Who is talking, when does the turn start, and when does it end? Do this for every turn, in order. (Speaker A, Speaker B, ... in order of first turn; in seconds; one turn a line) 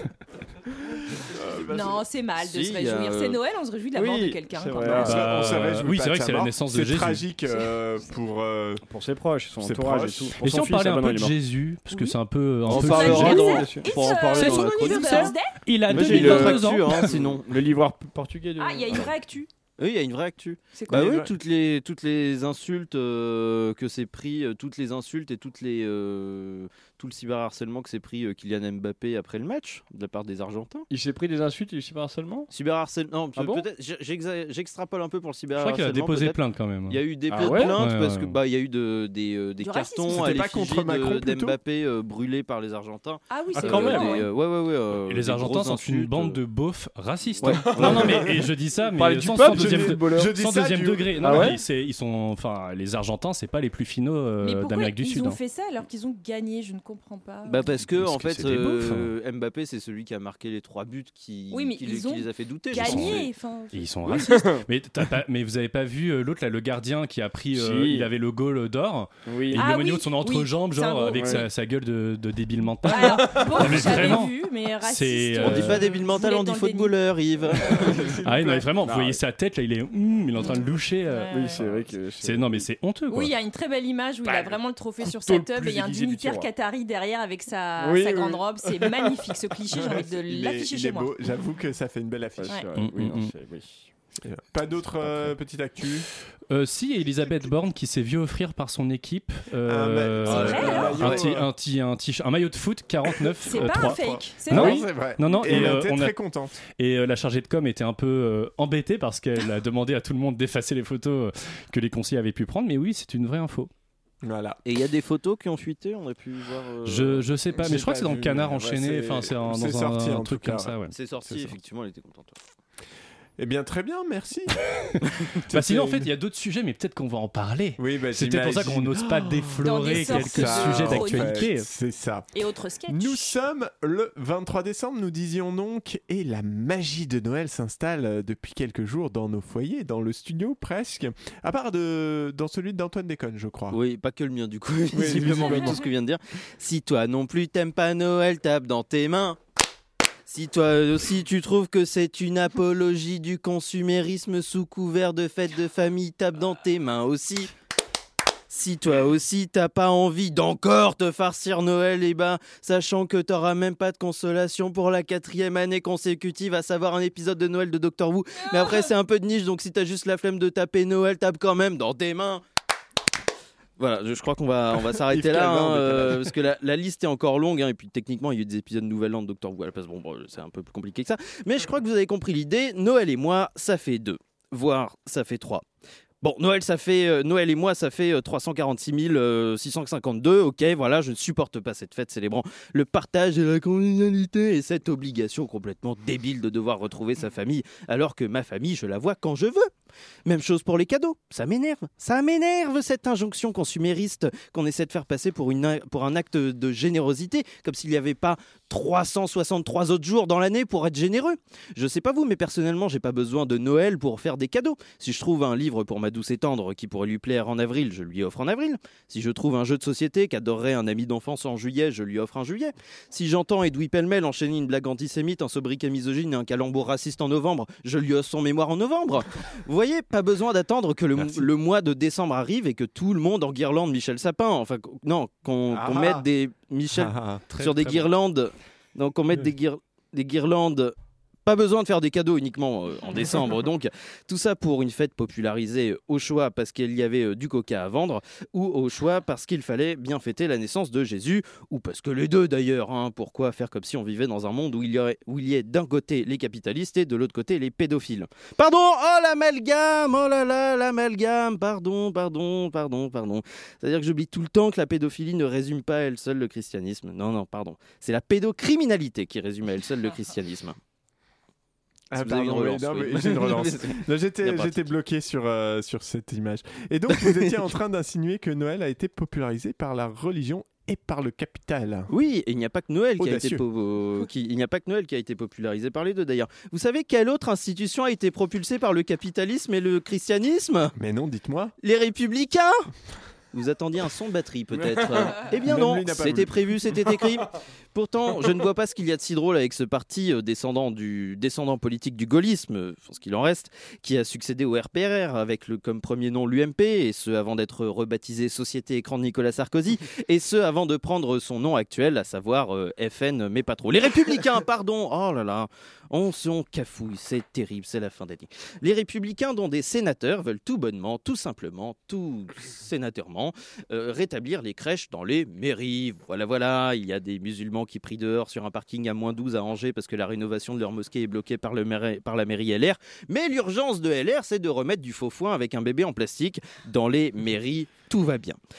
Speaker A: 1.3-1.8
Speaker B: 1.7-5.1
Speaker C: 2.4-3.4
Speaker D: 3.9-5.3
Speaker A: 4.8-8.8
Speaker E: 5.0-7.3
Speaker D: 8.9-11.3
Speaker A: 9.6-10.3
Speaker E: 10.4-13.6
Speaker B: 11.9-12.2
Speaker C: 12.7-15.3
Speaker B: 12.7-15.6
Speaker D: 13.1-13.9
Speaker E: 14.3-17.1
Speaker D: 15.9-19.1
Speaker C: 15.9-17.6
Speaker B: 18.6-19.5
Speaker C: 19.8-30.9
Speaker B: 20.7-21.1
Speaker A: 20.9-21.3
Speaker D: 30.9-32.5
Speaker C: 32.5-46.4
Speaker D: 33.3-33.6
Speaker E: 35.5-38.4
Speaker D: 37.3-37.8
Speaker B: 39.6-40.5
Speaker A: 40.1-41.6
Speaker B: 43.3-44.3
Speaker D: 43.5-44.2
Speaker E: 45.1-55.4
Speaker C: 47.4-47.9
Speaker D: 47.4-48.3
Speaker D: 48.9-50.3
Speaker A: 49.5-51.5
Speaker D: 51.2-51.6
Speaker B: 54.4-57.7
Speaker C: 57.5-63.3
Speaker E: 57.9-59.1
Speaker B: 61.5-63.9
Speaker E: 62.7-75.9
Speaker D: 64.1-64.6
Speaker D: 67.5-68.1
Speaker D: 69.3-69.7
Speaker B: 69.5-71.5
Speaker D: 71.1-71.5
Speaker B: 72.9-76.9
Speaker D: 72.9-74.0
Speaker C: 75.4-77.8
Speaker B: 77.5-78.0
Speaker A: 77.8-78.7
Speaker E: 78.2-83.3
Speaker D: 78.8-79.2
Speaker B: 80.3-81.6
Speaker D: 81.3-82.7
Speaker B: 83.1-91.1
Speaker D: 84.2-86.5
Speaker D: 87.8-89.1
Speaker A: 89.8-92.6
Speaker D: 92.4-93.9
Speaker E: 92.7-93.3
Speaker A: 94.2-96.1
Speaker E: 96.5-106.1
Speaker A: 99.7-101.5
Speaker C: 100.2-101.2
Speaker B: 100.3-101.0
Speaker B: 103.5-105.7
Speaker A: 103.5-106.6
Speaker E: 106.7-113.7
Speaker A: 114.2-114.6
Speaker C: 114.6-117.2
Speaker E: 116.8-120.9
Speaker A: 117.5-120.7
Speaker C: 120.9-122.4
Speaker A: 123.4-124.6
Speaker E: 125.3-131.7
Speaker A: 125.5-126.1
Speaker A: 127.8-132.3
Speaker B: 129.6-131.5
Speaker B: 132.3-133.3
Speaker A: 132.9-143.8
Speaker C: 143.7-149.4
Speaker D: 144.9-145.8
Speaker C: 150.3-157.5
Speaker C: 158.5-172.4
Speaker B: 168.4-168.9
Speaker C: 173.8-185.6
Speaker A: 174.8-176.4
Speaker C: 186.2-199.7
Speaker C: 200.2-270.8
Speaker A: 231.2-231.5
Speaker A: 235.7-236.2
Speaker A: 236.9-237.5
Speaker E: 237.5-238.1
Speaker A: 272.1-282.1
Speaker C: 272.1-274.9
Speaker C: 277.1-277.5
Speaker C: 282.1-290.9
Speaker A: 283.2-283.6
Speaker A: 290.9-291.7
Speaker C: 291.8-292.9
Speaker C: 293.5-338.6
Speaker A: 295.5-296.7